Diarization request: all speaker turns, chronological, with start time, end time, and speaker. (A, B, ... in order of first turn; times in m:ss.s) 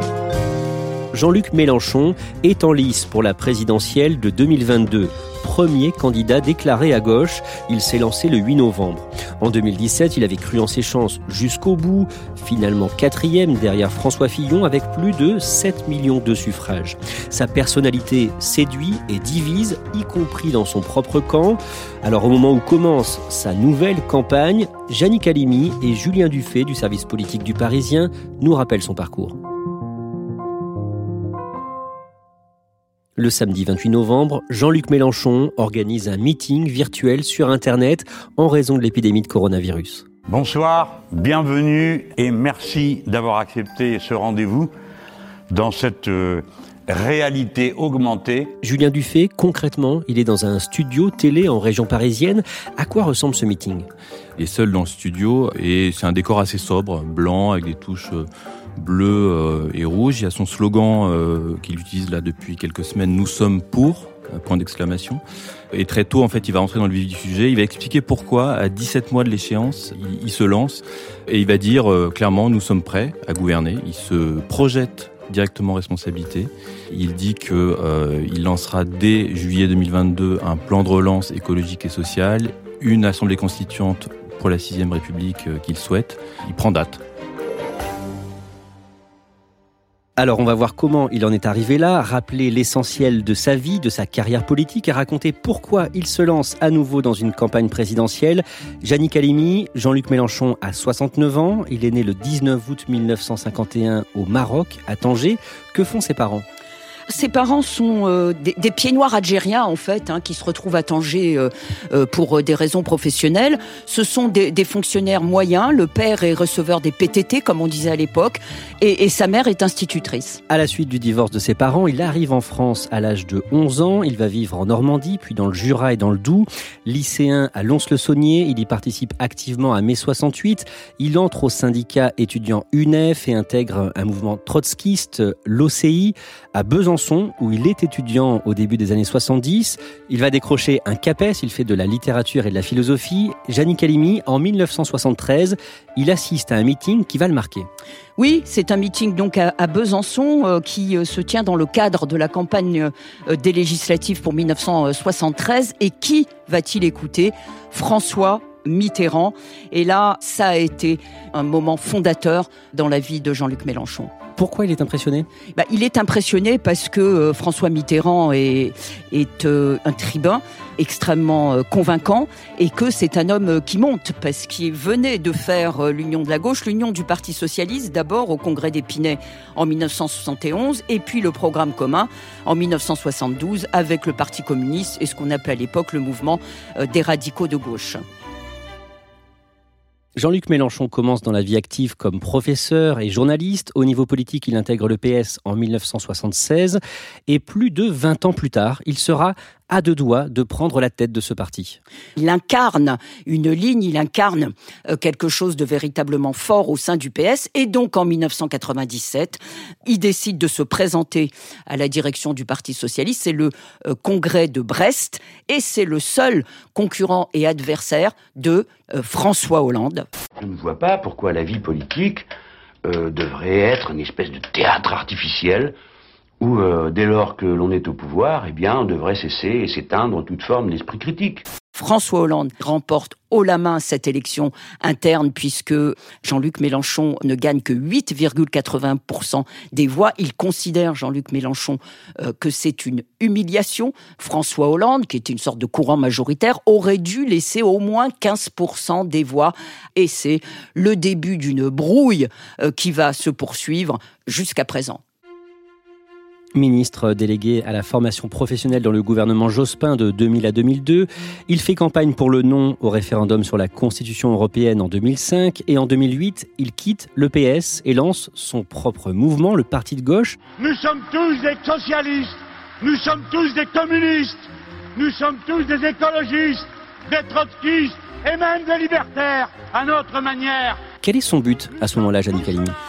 0:01.1-0:29.4 A
0:33.2-0:40.0 A
0:40.3-0:44.7 B
0:45.5-0:48.5 B
0:48.6-0:53.9 A
0:54.4-0:58.2 C
0:58.8-1:05.2 C
1:05.7-1:27.0 C
1:30.2-1:46.4 A
1:47.1-2:00.4 D
2:00.5-2:27.7 A
2:28.2-2:44.1 D
2:44.4-2:45.3 A
2:45.5-3:08.0 D
3:10.2-3:21.8 A
3:22.2-3:40.1 D
3:40.4-3:42.3 E
3:42.8-3:45.7 E
3:46.4-3:51.4 E
3:51.7-4:15.0 D
4:16.5-4:30.4 A
4:30.6-4:40.8 F
4:41.0-4:42.8 A